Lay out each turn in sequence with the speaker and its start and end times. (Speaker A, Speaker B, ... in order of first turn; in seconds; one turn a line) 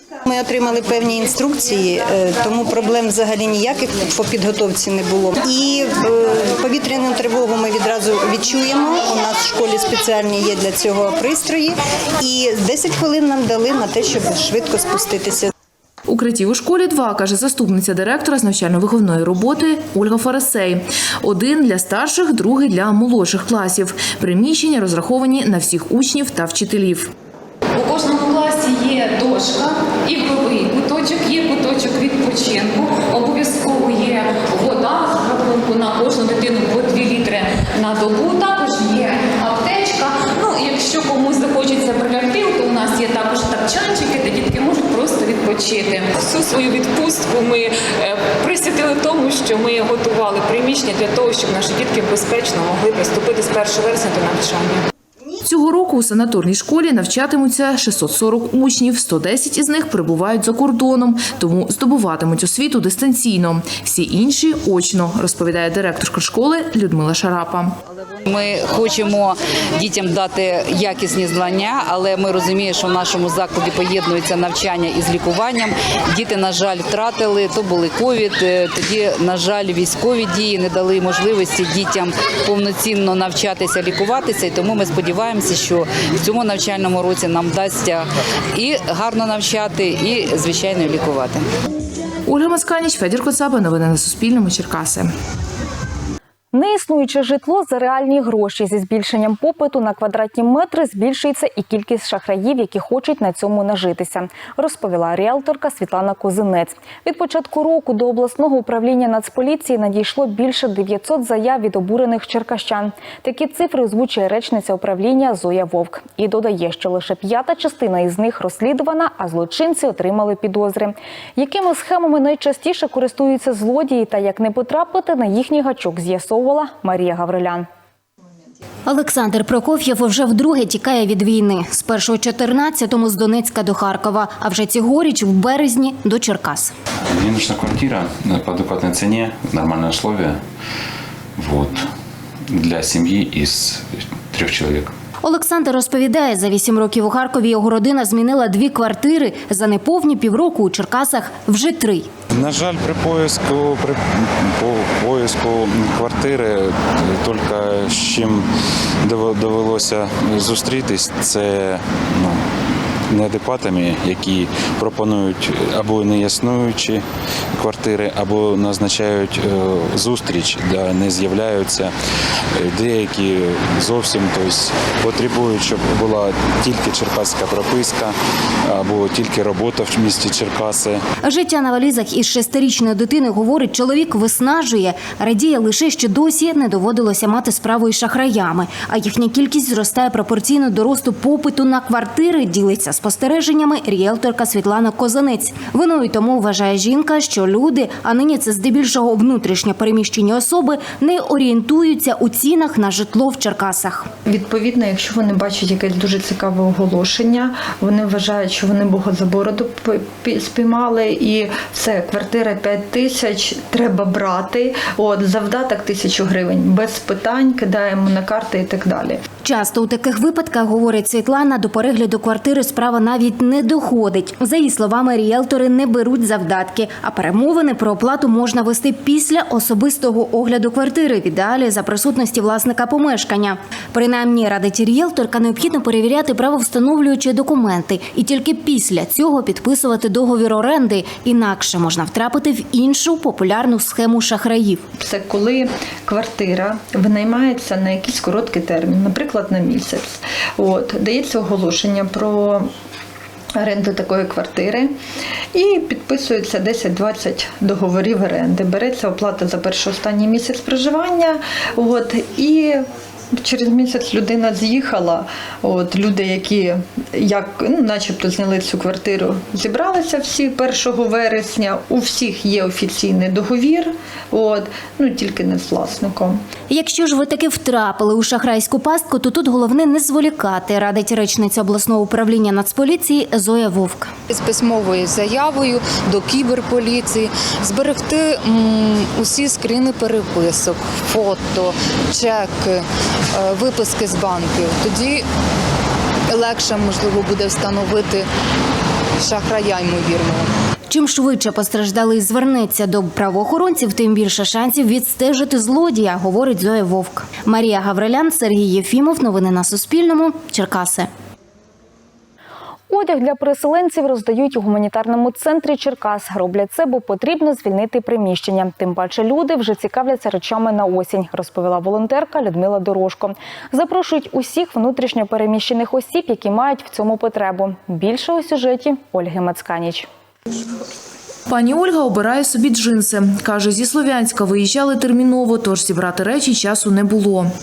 Speaker A: 0.3-15.5
Speaker B: 16.1-27.1
Speaker C: 27.8-54.8
Speaker B: 55.4-67.7
Speaker D: 68.2-91.4
Speaker B: 92.2-95.1
Speaker E: 96.5-127.7
Speaker F: 128.9-136.7
Speaker G: 137.2-139.3
Speaker H: 137.3-140.4
Speaker H: 141.4-141.8
Speaker H: 142.5-144.9
Speaker F: 145.2-152.1
Speaker G: 152.3-158.4
Speaker G: 159.0-162.4
Speaker G: 163.1-167.0
Speaker G: 167.6-171.9
Speaker G: 172.6-178.1
Speaker G: 178.7-181.0
Speaker F: 181.2-204.1
Speaker I: 204.3-219.2
Speaker F: 219.4-244.8
Speaker I: 245.0-252.7
Speaker I: 253.6-254.9
Speaker I: 255.5-262.8
Speaker I: 263.4-276.4
Speaker F: 276.7-284.1
Speaker J: 284.3-285.3
Speaker J: 286.1-288.5
Speaker J: 289.2-292.8
Speaker J: 293.4-295.2
Speaker J: 296.3-298.2
Speaker J: 299.2-300.4
Speaker F: 300.9-311.1
Speaker E: 312.9-330.1
Speaker B: 331.5-337.5